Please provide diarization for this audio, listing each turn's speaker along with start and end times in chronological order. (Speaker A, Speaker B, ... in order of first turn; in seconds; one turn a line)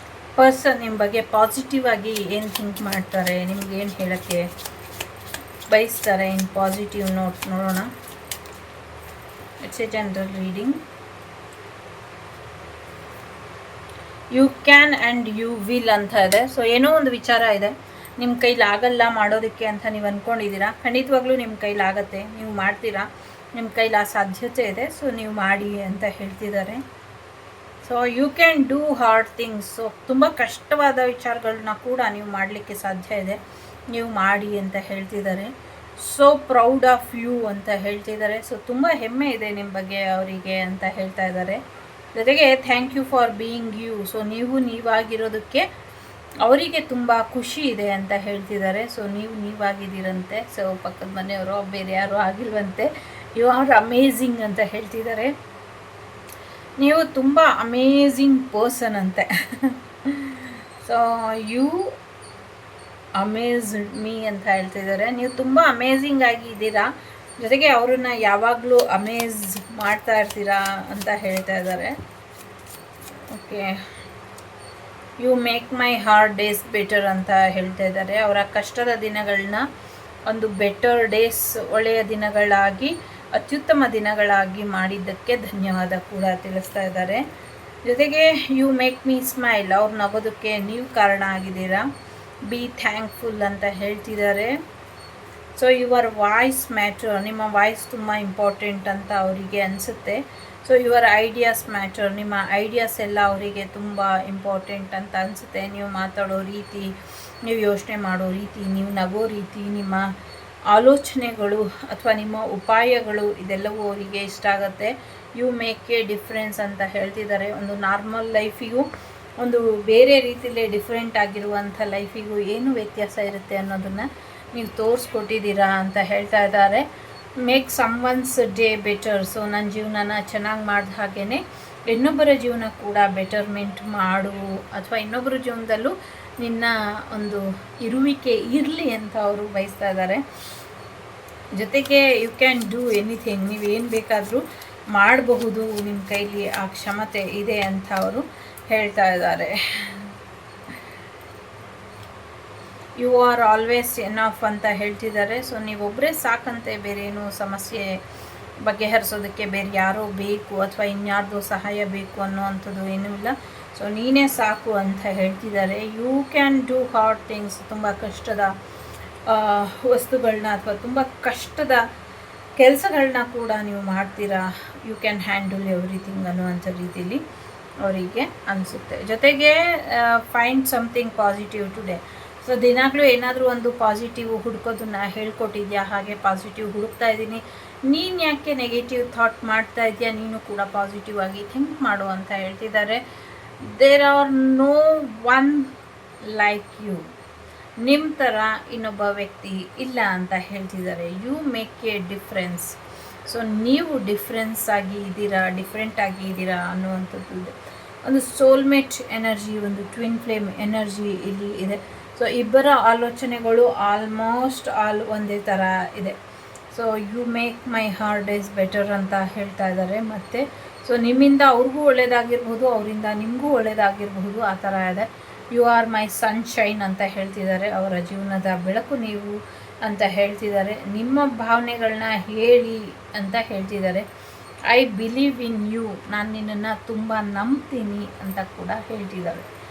Speaker A: 0.4-4.5
Speaker A: 5.7-7.9
Speaker A: 9.6-10.8
Speaker A: 14.3-26.8
Speaker A: 27.8-45.7
Speaker A: 46.4-55.4
Speaker A: 56.8-62.0
Speaker A: 63.2-72.0
Speaker A: 73.3-73.8
Speaker A: 75.2-79.7
Speaker A: 80.3-87.2
Speaker A: 87.8-91.9
Speaker A: 92.5-94.6
Speaker A: 95.5-106.9
Speaker A: 107.4-110.1
Speaker A: 110.7-118.9
Speaker A: 119.4-126.9
Speaker A: 127.4-140.2
Speaker A: 141.6-150.1
Speaker A: 153.0-158.0
Speaker A: 158.6-168.6
Speaker A: 169.3-171.8
Speaker A: 172.6-177.2
Speaker A: 177.8-193.0
Speaker A: 193.6-197.1
Speaker A: 197.8-216.2
Speaker A: 216.7-234.1
Speaker A: 234.7-239.5